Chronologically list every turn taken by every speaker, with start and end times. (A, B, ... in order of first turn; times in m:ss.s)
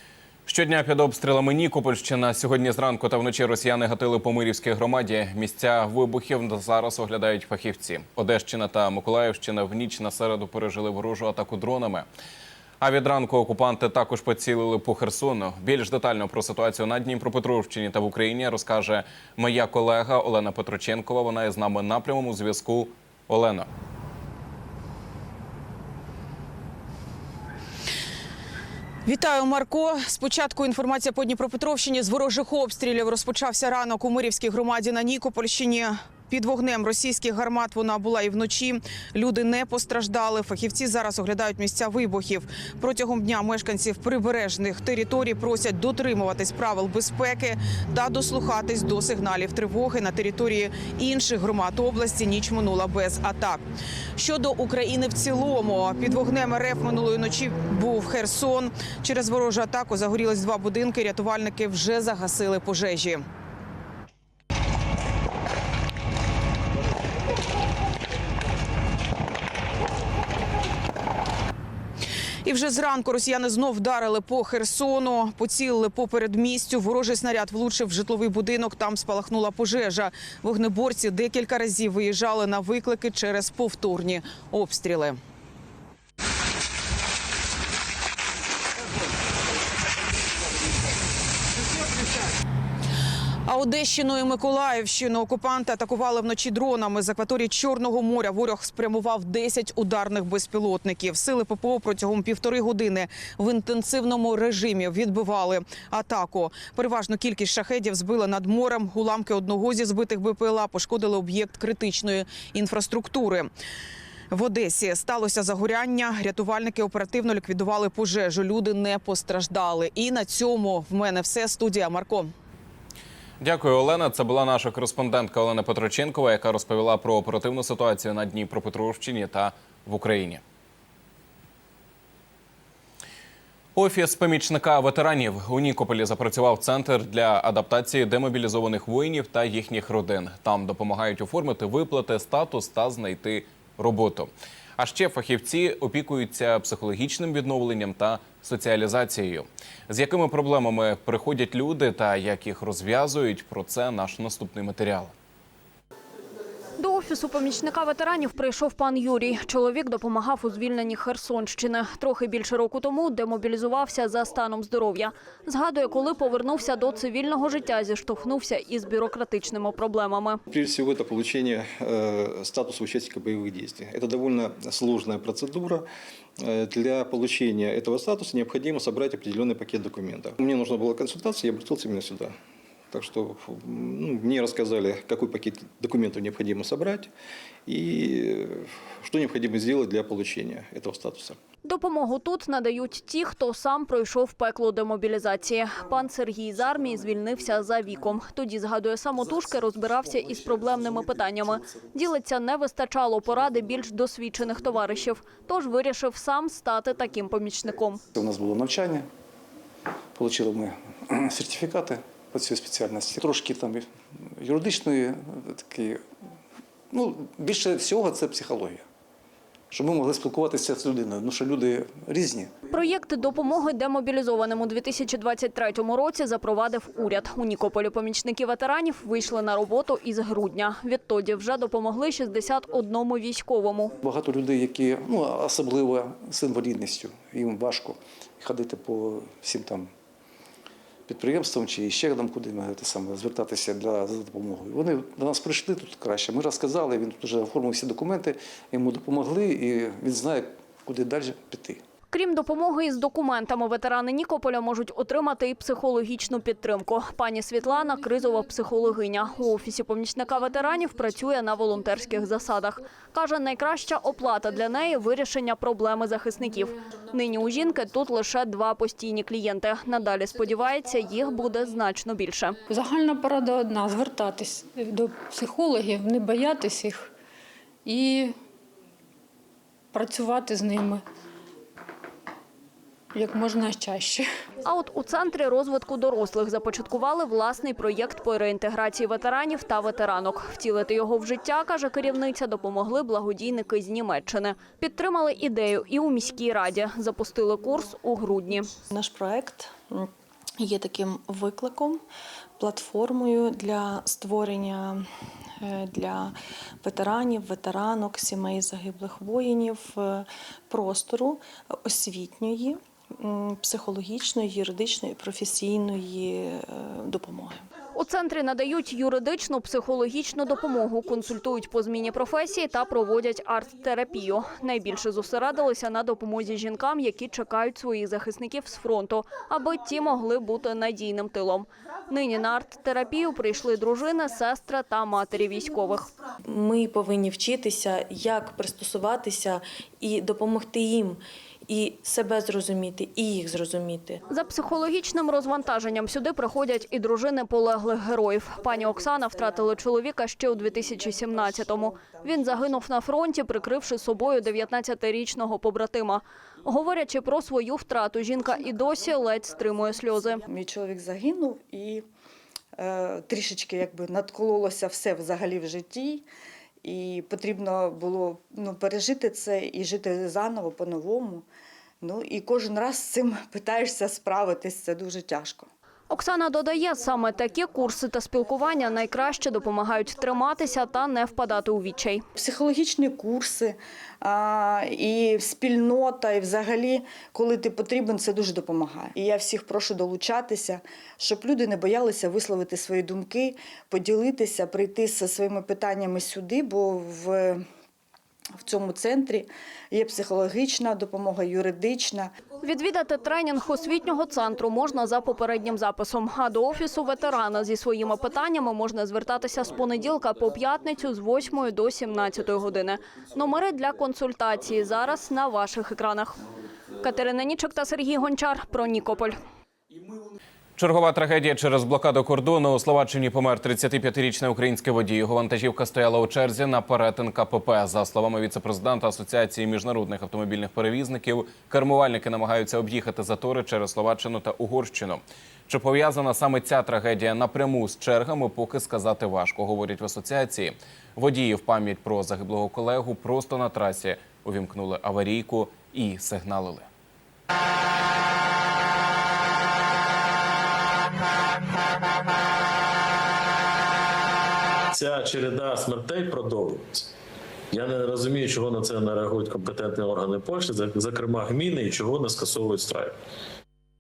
0:00.5-0:12.1 A
0:12.8-0:23.7 A
0:29.1-0:53.6 B
0:54.2-1:03.2 B
1:12.4-1:25.2 B
1:33.5-1:53.5 B
1:54.3-2:02.3 B
2:03.4-2:10.4 A
2:13.8-2:35.1 A
2:36.8-2:50.4 C
2:50.5-2:55.8 D
2:56.4-3:02.3 D
3:02.9-3:07.1 D
3:07.7-3:11.4 D
3:11.6-3:28.0 C
3:28.2-3:29.1 E
3:30.2-3:33.8 E
3:34.4-3:36.0 E
3:36.9-3:38.8 E
3:39.7-3:42.5 E
3:42.7-3:53.9 C
3:54.0-3:59.9 E
4:01.1-4:11.8 E
4:12.1-4:32.6 C
4:32.7-4:37.1 F
4:37.8-4:38.4 F
4:39.9-4:41.0 F
4:43.1-4:44.3 F
4:44.6-4:58.7 C
4:58.9-5:02.0 G
5:02.6-5:05.1 G
5:05.6-5:17.7 G
5:18.0-5:36.1 C
5:36.4-5:44.2 G
5:44.3-6:00.4 C
6:00.5-6:02.1 H
6:02.8-6:06.3 H
6:06.8-6:11.5 H
6:12.0-6:15.7 H
6:16.1-6:22.2 C
6:22.4-6:37.6 H
6:38.6-6:42.3 H
6:42.6-6:56.4 C
6:57.0-6:59.4 C
7:00.8-7:26.9 A
7:34.9-7:37.1 I
7:37.7-7:43.2 I